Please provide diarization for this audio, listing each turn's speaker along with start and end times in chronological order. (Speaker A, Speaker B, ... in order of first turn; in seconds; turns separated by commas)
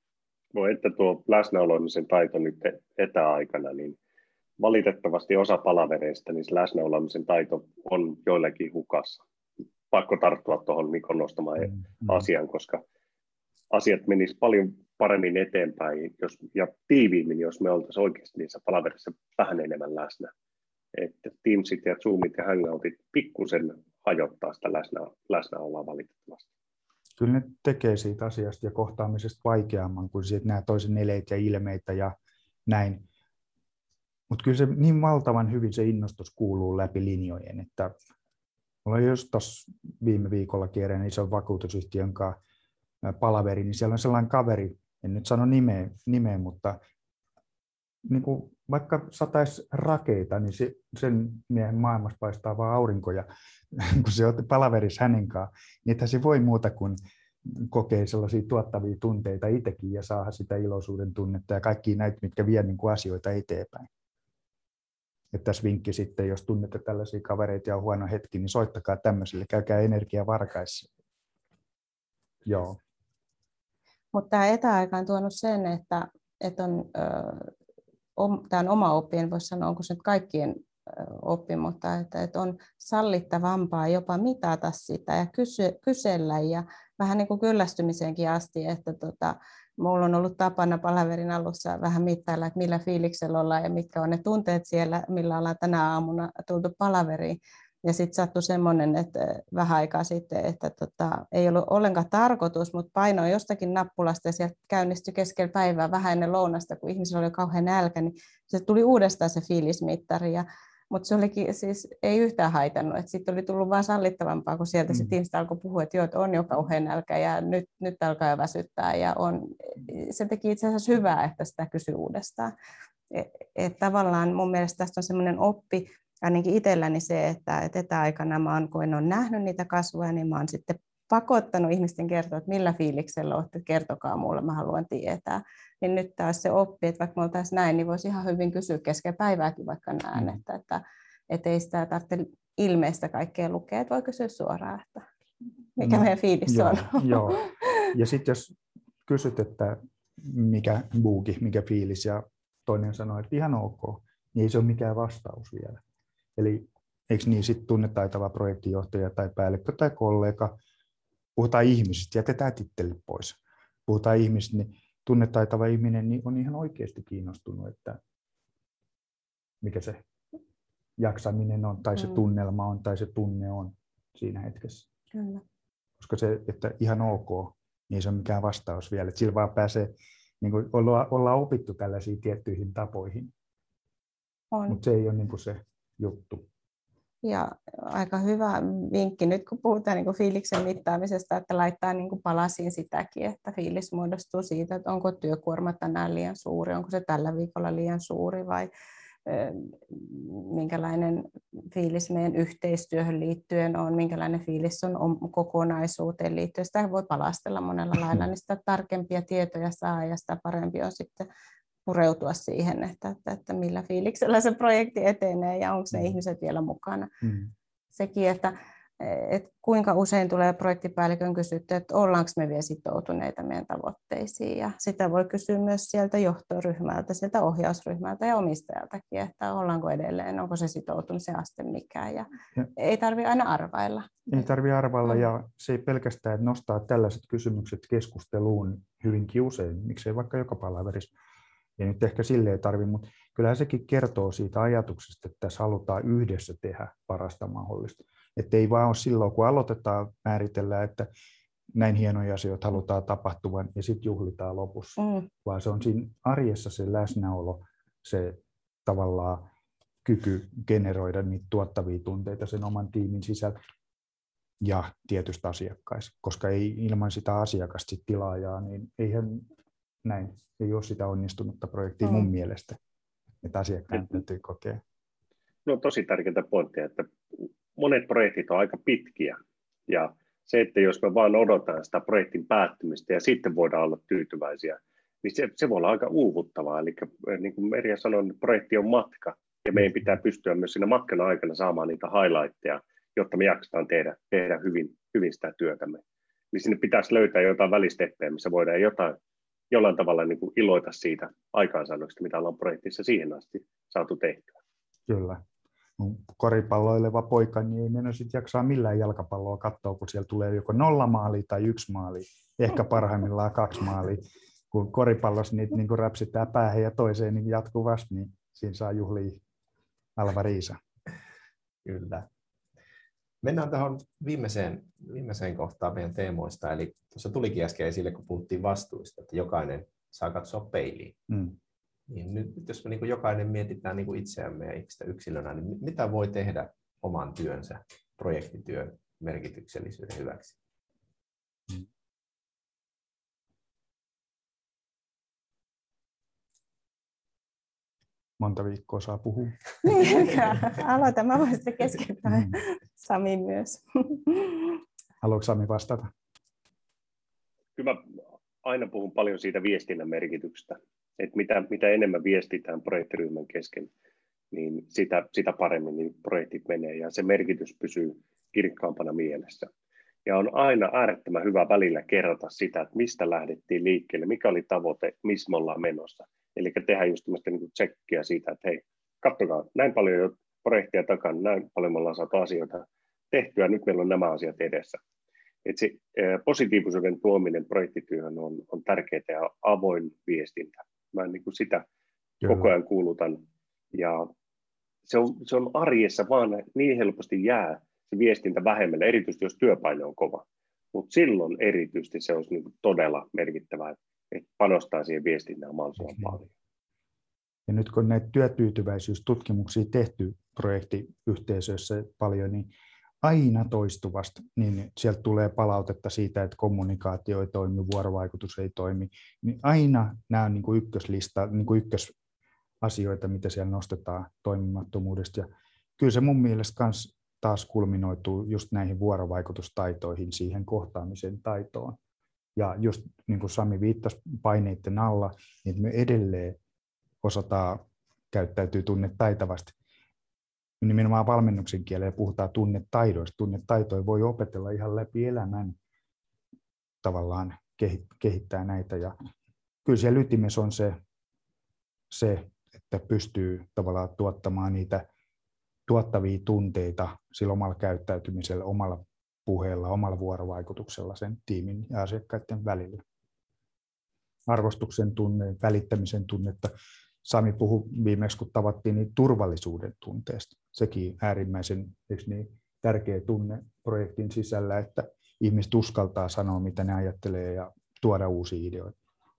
Speaker A: 0.5-4.0, Speaker A: 4.6-9.2, Speaker A: 9.9-12.8, Speaker A: 13.7-20.3, Speaker A: 20.9-26.5, Speaker B: 27.2-32.1, Speaker B: 32.7-33.0, Speaker B: 34.3-37.9, Speaker B: 38.8-42.4, Speaker B: 43.0-46.8, Speaker B: 48.0-63.9, Speaker B: 65.3-70.9, Speaker B: 72.4-72.8, Speaker C: 74.1-77.5, Speaker C: 78.2-122.5, Speaker B: 114.9-115.2, Speaker C: 123.1-145.1, Speaker B: 140.1-140.4, Speaker C: 145.8-147.7, Speaker B: 145.8-155.8, Speaker B: 156.4-160.5, Speaker B: 161.3-168.0, Speaker B: 169.6-170.0, Speaker B: 171.0-174.9, Speaker C: 175.1-175.4, Speaker B: 176.0-183.3, Speaker C: 184.5-184.8, Speaker B: 184.7-186.4, Speaker C: 187.2-198.7, Speaker C: 199.2-211.3, Speaker C: 211.8-217.1, Speaker B: 215.9-216.2, Speaker B: 217.2-217.5, Speaker C: 217.9-234.5, Speaker B: 234.3-241.1, Speaker B: 241.8-251.1, Speaker B: 251.7-259.5, Speaker C: 255.0-255.3, Speaker B: 260.0-263.5, Speaker B: 264.6-269.5, Speaker B: 270.0-272.8, Speaker C: 272.0-272.3, Speaker B: 273.4-274.8, Speaker A: 275.6-299.2, Speaker A: 299.7-304.6, Speaker B: 305.1-305.4, Speaker B: 306.0-319.4, Speaker B: 320.1-320.8, Speaker D: 321.8-322.3, Speaker D: 323.4-331.2, Speaker B: 331.3-331.5, Speaker D: 332.1-340.6, Speaker B: 348.4-350.6, Speaker C: 349.8-354.8, Speaker B: 352.2-352.6, Speaker B: 355.2-356.1, Speaker A: 357.8-358.0, Speaker A: 358.6-363.9, Speaker A: 364.5-369.7, Speaker A: 370.2-385.0, Speaker A: 385.6-391.8, Speaker B: 392.4-392.7, Speaker A: 392.4-393.4, Speaker A: 393.9-394.3, Speaker A: 395.1-406.5, Speaker B: 407.7-412.7, Speaker B: 413.2-422.1, Speaker B: 422.8-432.0, Speaker B: 432.6-436.6, Speaker B: 437.2-439.7, Speaker B: 440.8-445.8, Speaker B: 447.0-449.1, Speaker B: 449.8-451.0, Speaker B: 452.1-455.0, Speaker B: 455.9-463.0, Speaker B: 464.5-466.7, Speaker B: 467.2-478.9